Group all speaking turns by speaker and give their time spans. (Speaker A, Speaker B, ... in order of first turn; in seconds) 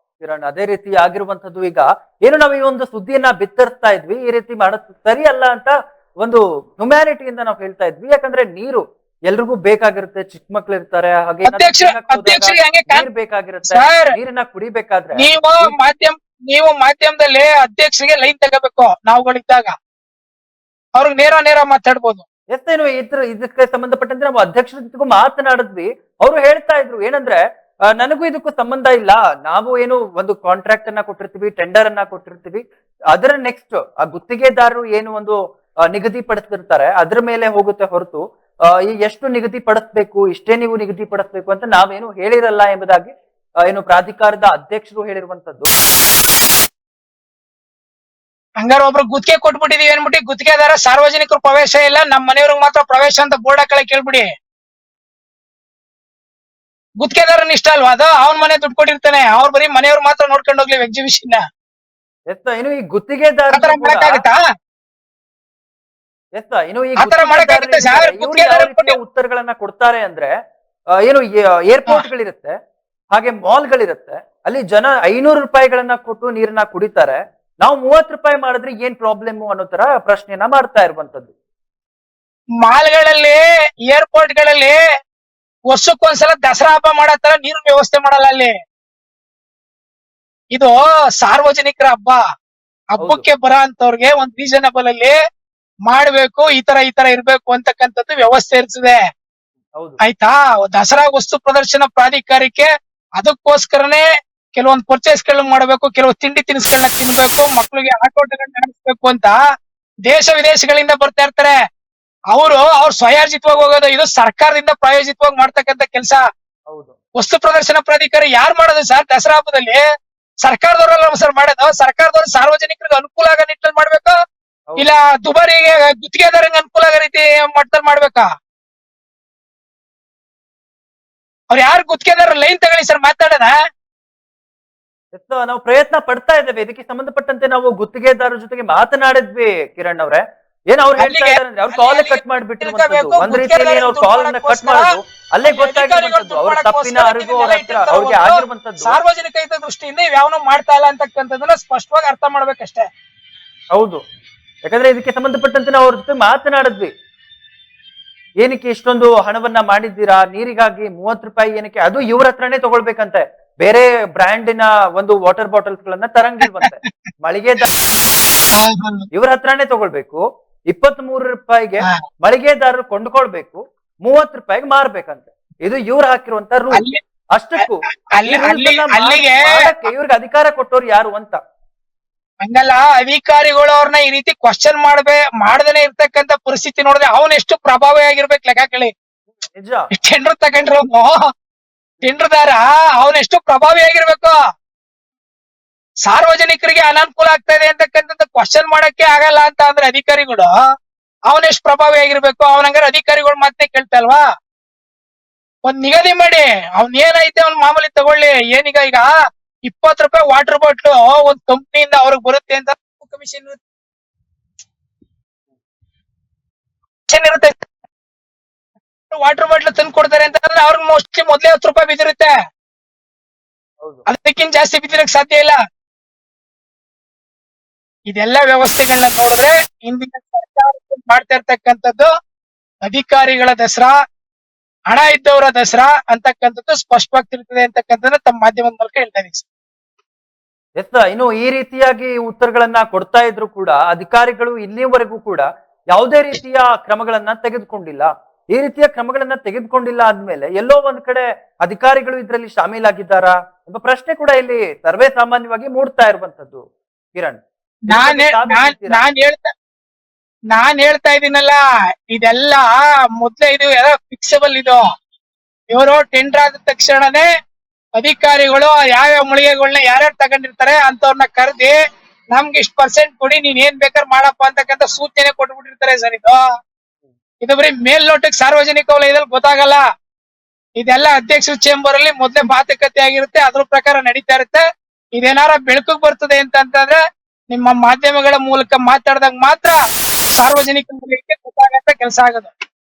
Speaker A: 0.2-15.7, 22.5-27.4, 28.0-32.6, 33.1-35.4, 35.9-38.2, 38.9-43.1, 43.7-45.7, 62.3-64.2, 66.4-70.3, 71.1-72.5, 73.1-81.3, 93.0-93.3, 116.7-117.0, 124.7-125.0, 135.1-149.0, 153.8-154.0, 154.7-156.9, 158.4-167.7, 169.1-176.8, 177.4-181.4, 189.6-189.8, 240.8-256.6, 257.1-259.0
Speaker B: 11.4-13.1, 13.7-14.1, 15.2-19.7, 21.0-22.2, 48.6-54.3, 57.0-61.4, 63.5-64.4, 67.0-69.0, 82.6-84.8, 85.7-88.5, 90.5-92.2, 92.9-95.2, 95.9-99.0, 100.0-109.4, 110.1-111.6, 112.3-116.2, 117.2-119.8, 120.4-124.2, 124.8-128.3, 131.5-133.5, 141.0-152.9, 166.6-166.9, 168.6-169.1, 178.2-179.6, 182.4-188.9, 189.9-191.2, 192.0-194.3, 196.1-200.5, 201.3-204.2, 205.7-209.1, 209.7-213.6, 217.1-217.6, 219.1-222.3, 224.1-225.6, 228.1-232.1, 232.8-234.0, 234.9-239.4, 257.9-259.5, 260.5-261.6, 262.1-264.8, 265.7-267.3, 268.0-271.8, 272.3-276.4, 277.4-279.8, 280.8-284.6, 285.2-289.8, 290.4-292.5